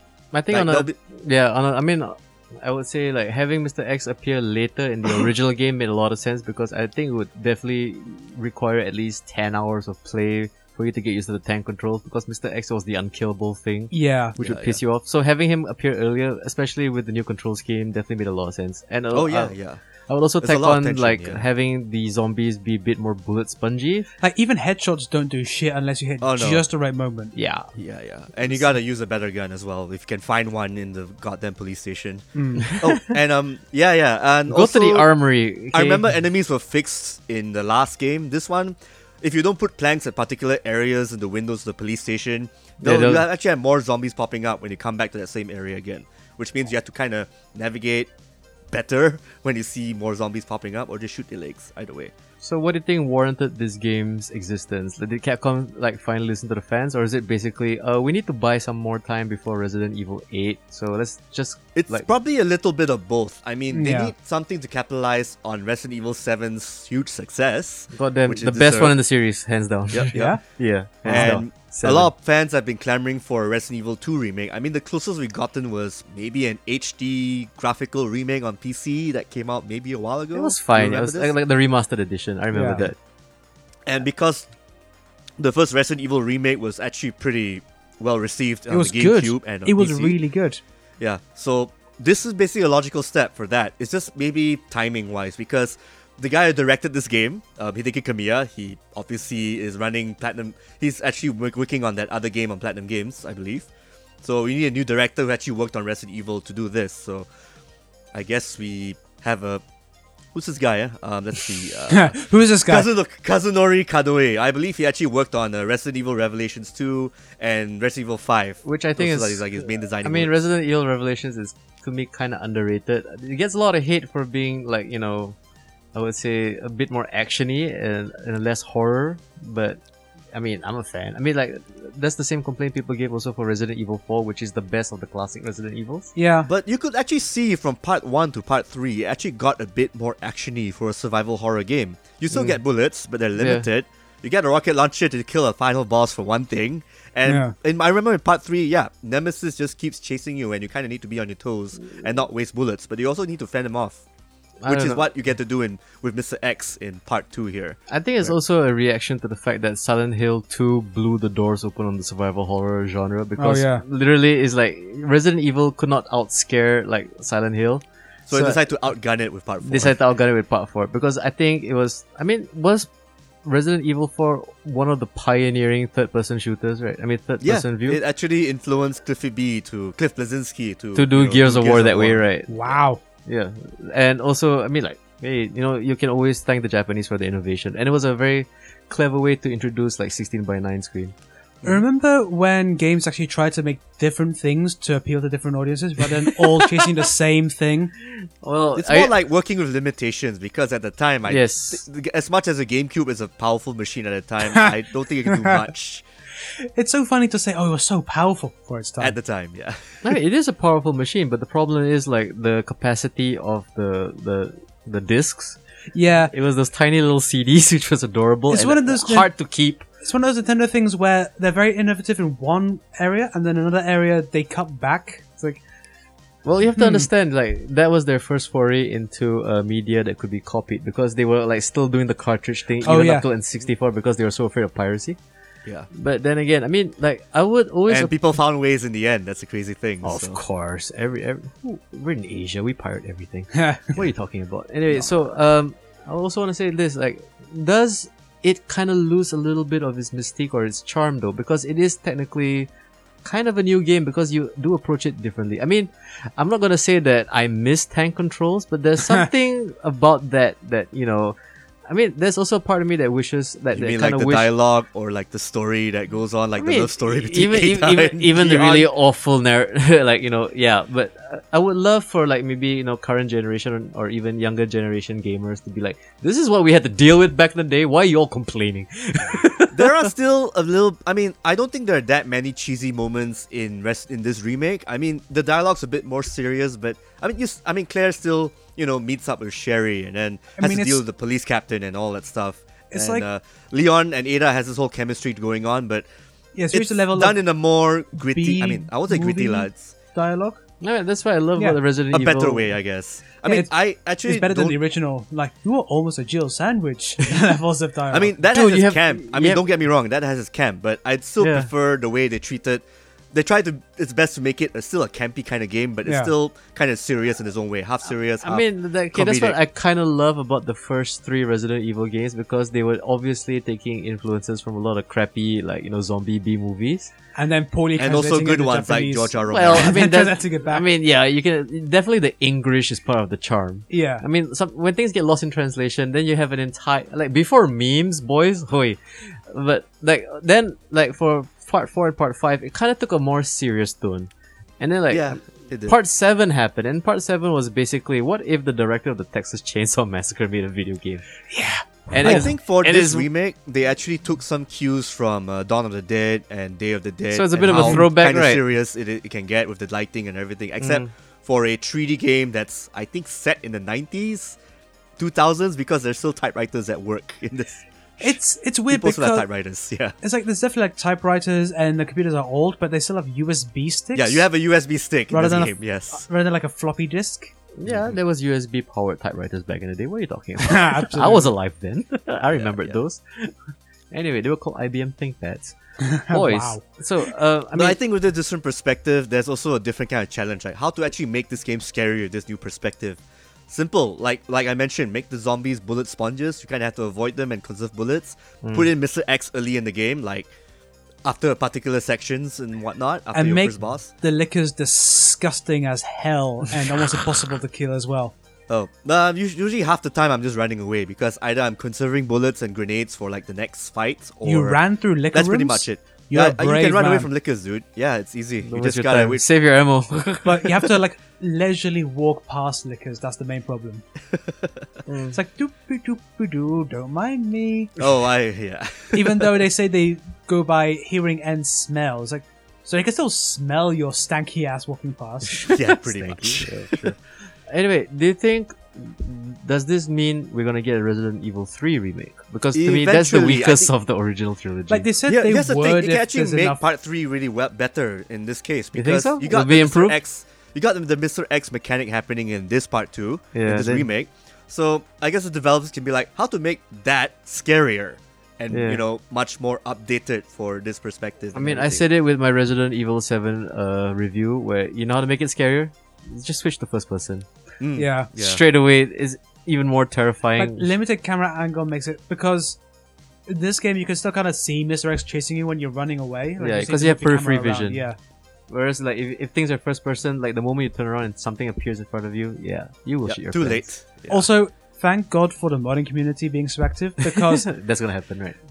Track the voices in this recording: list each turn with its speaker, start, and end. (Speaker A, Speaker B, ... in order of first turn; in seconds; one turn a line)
Speaker A: 0.3-19.5
Speaker B: 0.5-0.9
Speaker C: 13.9-14.3
Speaker B: 14.4-14.8
Speaker B: 19.1-19.8
Speaker A: 20.1-24.1
Speaker B: 20.4-21.4
Speaker C: 24.2-27.4
Speaker B: 26.2-26.6
Speaker A: 27.3-27.7
Speaker B: 27.8-35.1
Speaker C: 32.3-32.7
Speaker A: 32.6-33.0
Speaker A: 34.5-36.0
Speaker B: 35.7-48.1
Speaker A: 42.8-43.2
Speaker B: 48.7-52.1
Speaker A: 52.4-62.1
Speaker B: 61.7-69.0
Speaker C: 63.7-64.1
Speaker A: 67.9-72.1
Speaker B: 69.9-70.4
Speaker C: 70.1-70.4
Speaker B: 71.0-81.3
Speaker A: 80.3-83.0
Speaker C: 82.5-82.8
Speaker B: 83.9-84.5
Speaker B: 85.4-90.2
Speaker C: 88.7-90.6
Speaker B: 91.0-103.7
Speaker B: 104.2-107.3
Speaker B: 108.1-109.6
Speaker B: 110.3-120.4
Speaker C: 111.9-112.9
Speaker A: 118.6-125.4
Speaker A: 125.9-129.8
Speaker A: 130.3-136.1
Speaker C: 136.2-136.5
Speaker B: 136.5-154.0
Speaker A: 142.3-142.6
Speaker A: 143.4-143.7
Speaker C: 147.2-147.5
Speaker A: 154.6-155.0
Speaker B: 154.7-158.3
Speaker A: 157.9-168.6
Speaker C: 163.4-163.8
Speaker B: 168.3-170.0
Speaker A: 169.6-172.9
Speaker A: 173.4-178.0
Speaker B: 177.4-182.2
Speaker A: 180.9-182.7
Speaker C: 182.5-183.0
Speaker A: 183.2-191.1
Speaker C: 191.6-197.9
Speaker A: 196.3-196.9
Speaker A: 198.0-199.1
Speaker B: 198.7-206.0
Speaker A: 201.3-201.8
Speaker C: 205.2-205.7
Speaker C: 206.6-209.1
Speaker B: 209.0-209.8
Speaker A: 210.0-215.6
Speaker C: 215.9-216.3
Speaker A: 216.3-219.8
Speaker C: 218.5-219.3
Speaker C: 220.0-225.6
Speaker A: 226.4-235.2
Speaker C: 226.8-227.1
Speaker C: 232.8-233.2
Speaker A: 235.9-238.1
Speaker B: 237.9-240.4
Speaker A: 240.0-252.7
Speaker C: 243.5-243.9
Speaker A: 253.2-261.4
Speaker A: 261.9-264.5
Speaker B: 263.7-268.9
Speaker A: 266.6-280.1
Speaker B: 279.7-296.1
Speaker C: 290.6-291.0
Speaker C: 292.9-293.2
Speaker C: 296.5-297.4
Speaker B: 296.7-299.9
Speaker C: 298.1-300.6
Speaker A: 300.8-302.7
Speaker B: 302.1-304.8
Speaker C: 303.4-308.3
Speaker B: 308.1-319.6
Speaker A: 308.5-309.6
Speaker A: 311.4-311.7
Speaker C: 316.1-316.3
Speaker A: 318.4-327.1
Speaker C: 327.3-330.9
Speaker B: 328.0-330.0
Speaker A: 329.5-351.3
Speaker C: 333.9-334.2
Speaker B: 345.1-345.9
Speaker C: 351.5-352.5
Speaker A: 352.1-353.3
Speaker B: 352.2-364.6
Speaker A: 357.3-358.6
Speaker C: 357.7-358.0
Speaker A: 360.8-361.1
Speaker B: 365.2-368.4
Speaker C: 368.2-369.5
Speaker B: 368.9-370.1
Speaker C: 370.2-374.5
Speaker B: 374.1-376.2
Speaker C: 375.3-377.5
Speaker A: 377.8-383.5
Speaker B: 377.9-378.1
Speaker C: 380.6-381.5
Speaker B: 382.5-383.0
Speaker A: 384.1-385.8
Speaker C: 386.0-386.8
Speaker A: 386.3-388.0
Speaker B: 387.7-400.5
Speaker A: 398.6-398.9
Speaker B: 401.2-404.1
Speaker C: 403.3-408.3
Speaker B: 408.7-414.8
Speaker C: 414.4-417.3
Speaker B: 415.3-419.4
Speaker A: 418.6-420.9
Speaker C: 420.4-424.0
Speaker A: 425.1-425.4
Speaker C: 425.3-428.0
Speaker B: 428.0-429.5
Speaker C: 429.1-435.8
Speaker B: 435.6-437.1
Speaker A: 435.7-445.1
Speaker B: 442.7-443.9
Speaker C: 444.9-446.8
Speaker B: 445.3-462.1
Speaker A: 448.9-450.2
Speaker A: 453.5-454.1
Speaker A: 458.7-459.0
Speaker A: 461.5-467.5
Speaker B: 467.8-468.6
Speaker C: 467.9-468.3
Speaker A: 468.4-470.9
Speaker C: 470.6-472.8
Speaker C: 473.5-478.2
Speaker A: 476.6-478.0
Speaker A: 478.7-483.9
Speaker B: 483.2-484.5
Speaker C: 484.3-487.7
Speaker A: 487.3-488.6